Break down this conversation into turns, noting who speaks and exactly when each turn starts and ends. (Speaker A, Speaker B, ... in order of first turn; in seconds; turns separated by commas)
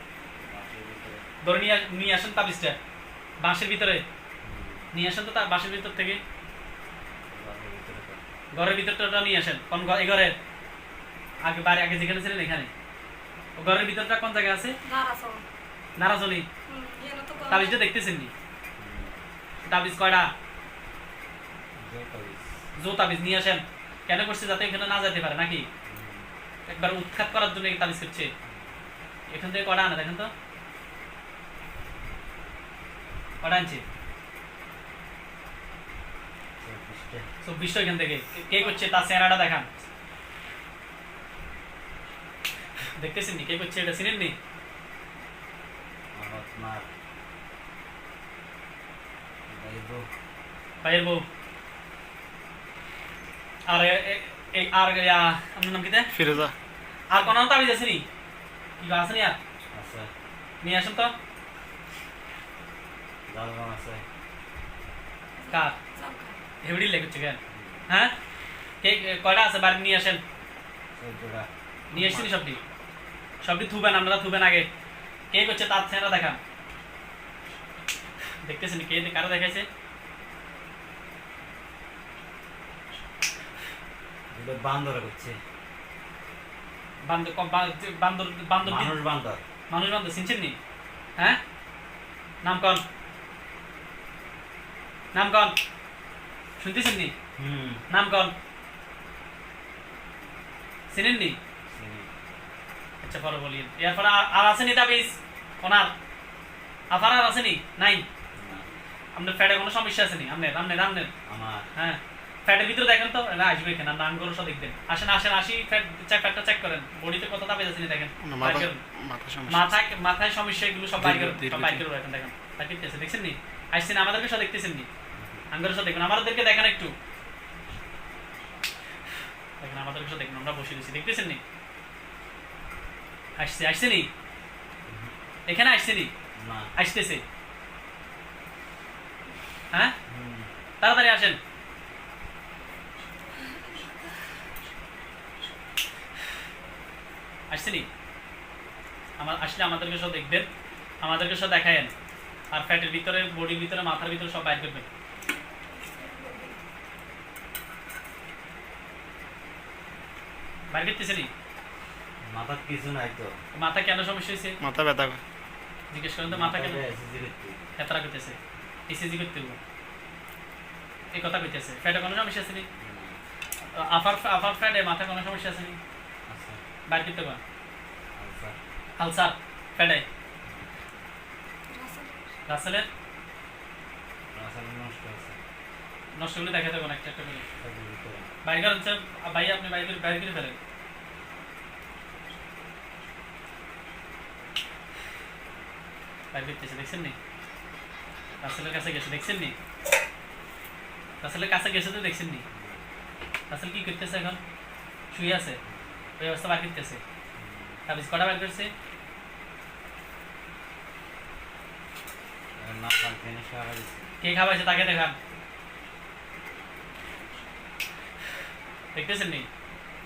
Speaker A: 0.4-1.2, Speaker B: 1.4-2.8, Speaker B: 3.4-4.0, Speaker A: 4.4-4.9, Speaker B: 4.9-6.2, Speaker A: 7.3-8.2, Speaker B: 8.5-10.3, Speaker B: 11.4-12.7, Speaker B: 13.6-14.7, Speaker C: 14.8-15.4, Speaker B: 16.0-16.4, Speaker C: 16.7-17.8, Speaker B: 17.5-18.3, Speaker A: 18.8-19.2, Speaker B: 19.6-20.3, Speaker A: 21.8-22.5, Speaker B: 22.8-25.7, Speaker A: 25.9-26.3, Speaker B: 26.7-28.3, Speaker B: 29.3-30.3, Speaker B: 33.4-33.8, Speaker A: 36.6-37.3, Speaker B: 37.4-39.7, Speaker B: 43.0-44.3, Speaker A: 46.1-46.9, Speaker A: 49.5-50.1, Speaker B: 50.8-51.2, Speaker B: 53.7-56.1, Speaker D: 56.1-56.5, Speaker B: 57.1-58.0, Speaker B: 58.8-59.4, Speaker A: 59.7-60.1, Speaker B: 60.6-61.1, Speaker A: 63.3-64.0, Speaker C: 65.4-66.4, Speaker B: 65.5-65.8, Speaker B: 66.6-68.2, Speaker A: 67.5-67.9, Speaker B: 68.8-70.2, Speaker A: 71.0-72.3, Speaker B: 71.9-72.6, Speaker B: 73.4-74.7, Speaker B: 75.3-76.4, Speaker B: 78.4-79.7, Speaker A: 84.3-85.4, Speaker B: 87.0-88.9, Speaker A: 88.6-89.4, Speaker B: 89.7-90.5, Speaker B: 92.4-92.8, Speaker B: 95.1-95.5, Speaker B: 96.6-97.1, Speaker A: 97.4-97.8, Speaker B: 97.9-98.3, Speaker B: 100.9-101.4, Speaker A: 101.7-102.1, Speaker B: 103.0-105.9, Speaker B: 106.9-108.0, Speaker A: 108.3-108.7, Speaker B: 109.2-111.1, Speaker A: 111.2-111.7, Speaker B: 111.7-118.8, Speaker D: 118.2-119.7, Speaker B: 119.5-124.9, Speaker D: 121.0-121.8, Speaker A: 125.1-125.5, Speaker B: 125.5-126.9, Speaker B: 129.6-131.4, Speaker B: 133.4-134.1, Speaker A: 134.9-135.1, Speaker B: 135.5-136.1, Speaker A: 136.3-136.7, Speaker B: 136.7-137.2, Speaker A: 140.1-140.5, Speaker B: 140.8-141.4, Speaker C: 143.3-143.9, Speaker B: 147.5-147.9, Speaker B: 149.2-150.5, Speaker B: 151.0-151.9, Speaker B: 152.5-154.9, Speaker C: 155.7-156.6, Speaker B: 160.7-161.3, Speaker A: 162.2-163.4, Speaker B: 163.5-164.6, Speaker D: 164.6-165.2, Speaker B: 165.9-166.8, Speaker A: 166.3-167.6, Speaker B: 167.8-168.4, Speaker B: 168.9-169.6, Speaker B: 171.1-172.7, Speaker A: 172.7-173.2, Speaker B: 173.7-175.8, Speaker A: 176.3-176.6, Speaker B: 176.9-177.4, Speaker A: 178.1-178.6, Speaker B: 179.0-180.0, Speaker C: 181.7-182.3, Speaker B: 182.5-182.9, Speaker A: 184.3-185.4, Speaker B: 186.1-187.5, Speaker A: 187.6-188.3, Speaker B: 188.4-190.6, Speaker B: 196.3-197.2, Speaker B: 198.4-199.5, Speaker B: 201.2-202.4, Speaker A: 202.5-202.8, Speaker B: 203.5-204.4, Speaker B: 205.1-205.6, Speaker A: 205.6-205.9, Speaker B: 206.2-207.0, Speaker A: 207.3-207.8, Speaker B: 207.9-208.7, Speaker A: 212.6-214.1, Speaker B: 214.2-215.2, Speaker B: 218.9-219.5